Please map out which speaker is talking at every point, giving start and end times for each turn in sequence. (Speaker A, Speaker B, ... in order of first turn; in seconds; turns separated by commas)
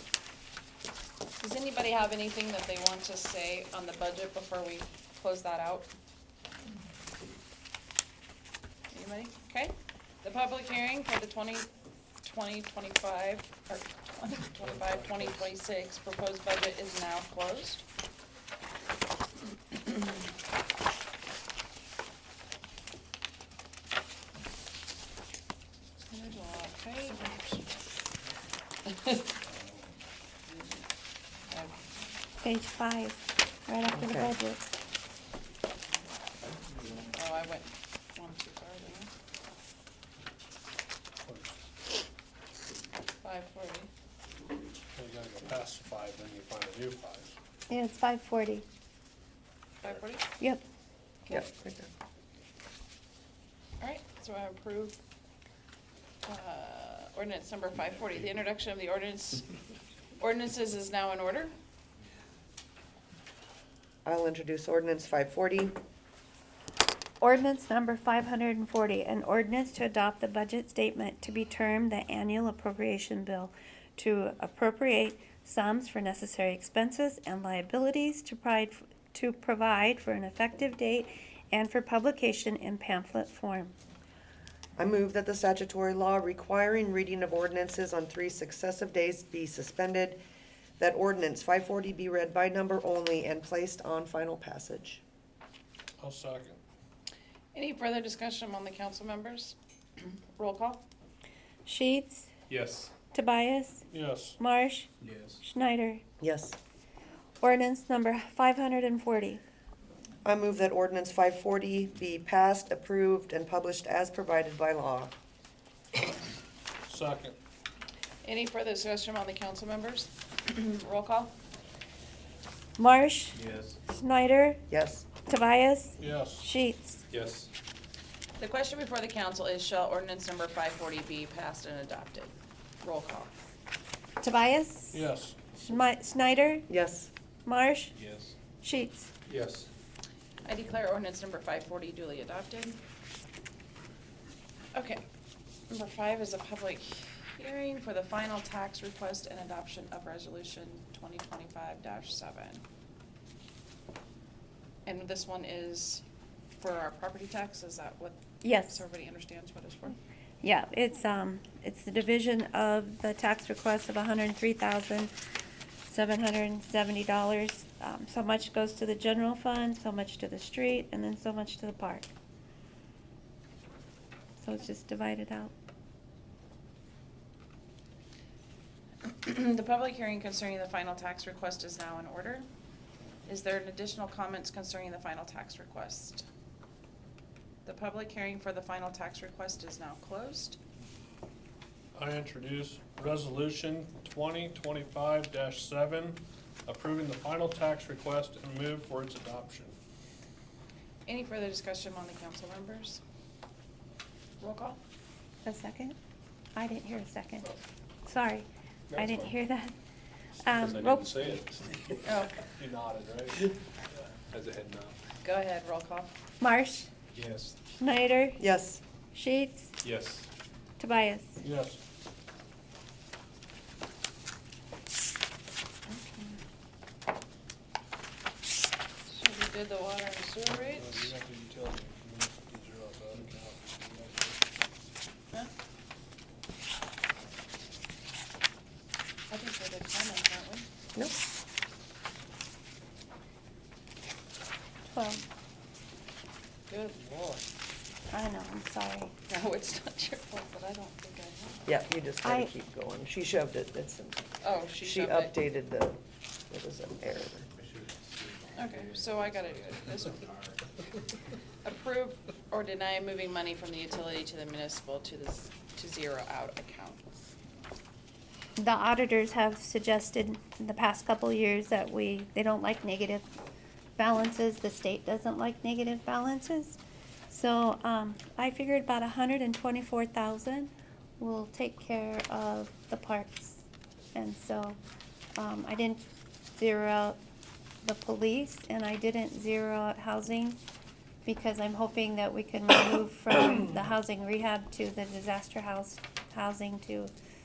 Speaker A: 1.4-5.9, Speaker A: 8.9-11.7, Speaker A: 12.2-17.8, Speaker B: 14.6-15.4, Speaker A: 19.7-20.0, Speaker A: 26.1-27.8, Speaker A: 28.9-29.3, Speaker A: 31.5-31.8, Speaker C: 32.4-34.7, Speaker D: 33.9-34.3, Speaker A: 37.1-39.1, Speaker B: 41.2-41.6, Speaker A: 43.2-43.9, Speaker B: 45.0-47.4, Speaker C: 47.7-48.7, Speaker A: 49.8-50.3, Speaker C: 50.4-50.6, Speaker D: 51.3-51.9, Speaker A: 53.8-55.0, Speaker A: 56.2-59.5, Speaker A: 60.2-61.5, Speaker D: 64.0-65.8, Speaker C: 67.2-83.7, Speaker D: 84.8-90.2, Speaker D: 90.8-95.0, Speaker B: 96.0-96.6, Speaker A: 97.5-100.8, Speaker C: 101.7-102.3, Speaker E: 102.5-102.9, Speaker C: 103.1-103.8, Speaker B: 103.9-104.4, Speaker C: 104.4-104.9, Speaker E: 105.0-105.4, Speaker C: 105.4-106.0, Speaker D: 106.2-106.6, Speaker C: 107.4-109.4, Speaker D: 110.2-115.1, Speaker B: 116.9-117.4, Speaker A: 118.2-121.3, Speaker C: 122.8-124.6, Speaker E: 123.3-123.8, Speaker D: 124.7-125.1, Speaker C: 125.2-127.0, Speaker B: 126.0-126.5, Speaker E: 127.1-127.5, Speaker A: 128.4-133.3, Speaker C: 134.2-136.7, Speaker B: 134.9-135.4, Speaker D: 136.7-137.1, Speaker C: 137.4-137.9, Speaker E: 137.9-138.3, Speaker C: 138.6-139.1, Speaker E: 139.3-139.7, Speaker A: 140.4-142.8, Speaker A: 144.8-145.1, Speaker A: 145.7-152.6, Speaker A: 154.9-156.0, Speaker A: 156.6-160.0, Speaker C: 158.4-158.8, Speaker C: 160.4-165.1, Speaker C: 165.9-172.1, Speaker C: 174.4-175.5, Speaker A: 179.0-182.5, Speaker A: 183.3-186.3, Speaker A: 187.7-190.6, Speaker B: 191.9-199.8, Speaker A: 201.1-203.0, Speaker A: 204.4-204.8, Speaker C: 205.4-206.0, Speaker C: 206.6-207.5, Speaker C: 208.1-209.7, Speaker B: 208.9-209.3, Speaker B: 210.3-212.0, Speaker C: 210.4-211.1, Speaker A: 212.0-212.3, Speaker B: 212.5-213.5, Speaker E: 214.3-214.9, Speaker B: 214.4-214.9, Speaker A: 215.2-216.1, Speaker C: 216.4-216.9, Speaker E: 217.1-217.6, Speaker C: 217.8-218.4, Speaker D: 218.4-218.8, Speaker C: 219.1-219.7, Speaker E: 219.8-220.3, Speaker C: 220.8-221.4, Speaker B: 221.4-221.8, Speaker A: 225.9-226.4, Speaker A: 229.1-231.1, Speaker B: 230.4-234.4, Speaker A: 239.3-240.7, Speaker C: 244.9-245.2, Speaker A: 246.7-247.5, Speaker C: 248.1-249.1, Speaker A: 249.3-251.7, Speaker D: 251.7-254.3, Speaker C: 252.2-252.5, Speaker A: 254.4-255.3, Speaker D: 254.8-257.5, Speaker E: 257.6-260.6, Speaker A: 258.6-260.3, Speaker A: 261.6-267.3, Speaker C: 268.6-273.3, Speaker C: 274.0-276.8, Speaker C: 277.3-283.6, Speaker C: 284.1-284.8, Speaker C: 285.4-286.0, Speaker C: 286.6-287.2, Speaker C: 287.8-290.6, Speaker C: 291.2-297.1